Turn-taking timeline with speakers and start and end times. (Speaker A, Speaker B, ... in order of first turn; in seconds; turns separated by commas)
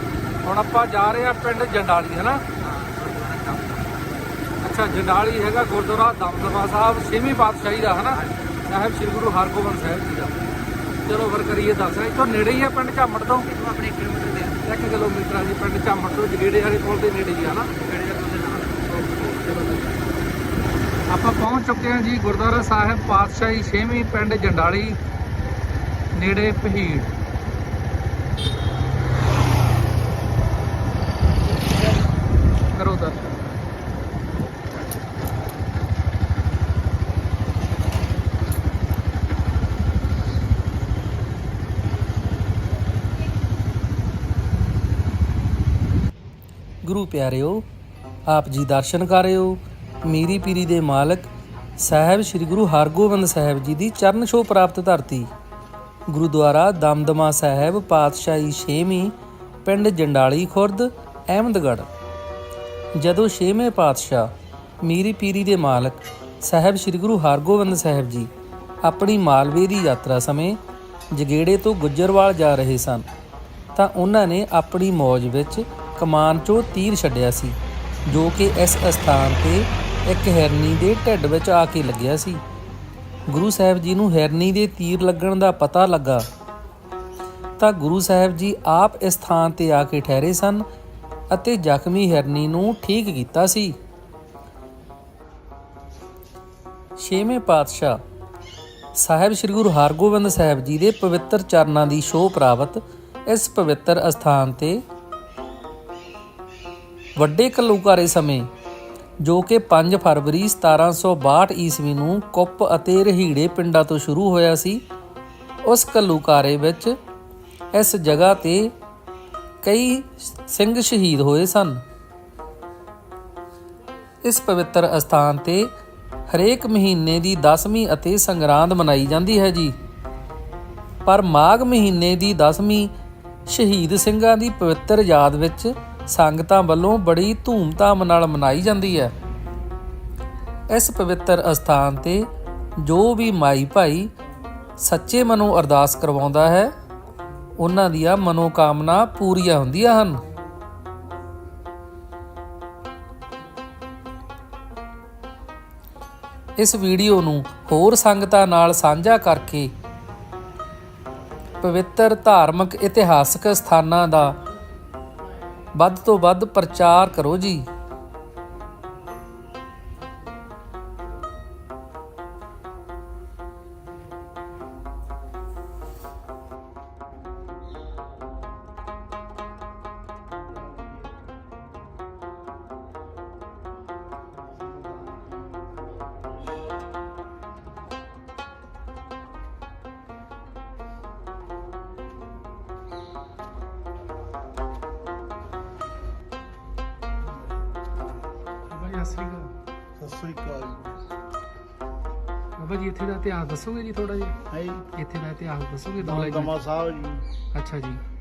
Speaker A: 0.4-2.4, Speaker B: 2.6-4.2, Speaker A: 4.6-10.4, Speaker A: 11.0-13.5, Speaker B: 13.5-14.6, Speaker A: 14.6-17.8, Speaker B: 17.8-18.9, Speaker A: 18.9-19.9, Speaker A: 21.1-25.0, Speaker A: 26.1-27.1, Speaker A: 32.7-33.5, Speaker C: 46.8-47.6, Speaker C: 48.3-55.3, Speaker C: 56.1-61.9, Speaker C: 63.0-64.3, Speaker C: 64.8-68.3, Speaker C: 68.8-70.6, Speaker C: 71.1-73.1, Speaker C: 73.8-82.4, Speaker C: 83.3-86.3, Speaker C: 87.6-90.7, Speaker C: 91.3-93.8, Speaker C: 97.0-98.0, Speaker C: 98.9-104.8, Speaker C: 107.2-108.5, Speaker C: 109.2-114.8, Speaker C: 115.7-116.9, Speaker C: 117.7-118.7, Speaker C: 119.6-121.8, Speaker C: 124.2-125.7, Speaker C: 126.3-129.8, Speaker C: 131.0-132.9, Speaker C: 133.4-139.1, Speaker C: 140.7-144.1, Speaker C: 144.8-146.8, Speaker C: 147.6-150.2, Speaker C: 156.6-159.7, Speaker C: 161.6-164.4, Speaker C: 165.8-167.7, Speaker D: 180.4-181.5, Speaker D: 184.5-186.6, Speaker D: 197.2-198.1, Speaker A: 198.7-199.5, Speaker D: 199.9-201.0, Speaker A: 202.6-204.4, Speaker D: 204.5-204.9, Speaker A: 204.9-206.5, Speaker D: 206.0-207.3, Speaker A: 207.5-208.0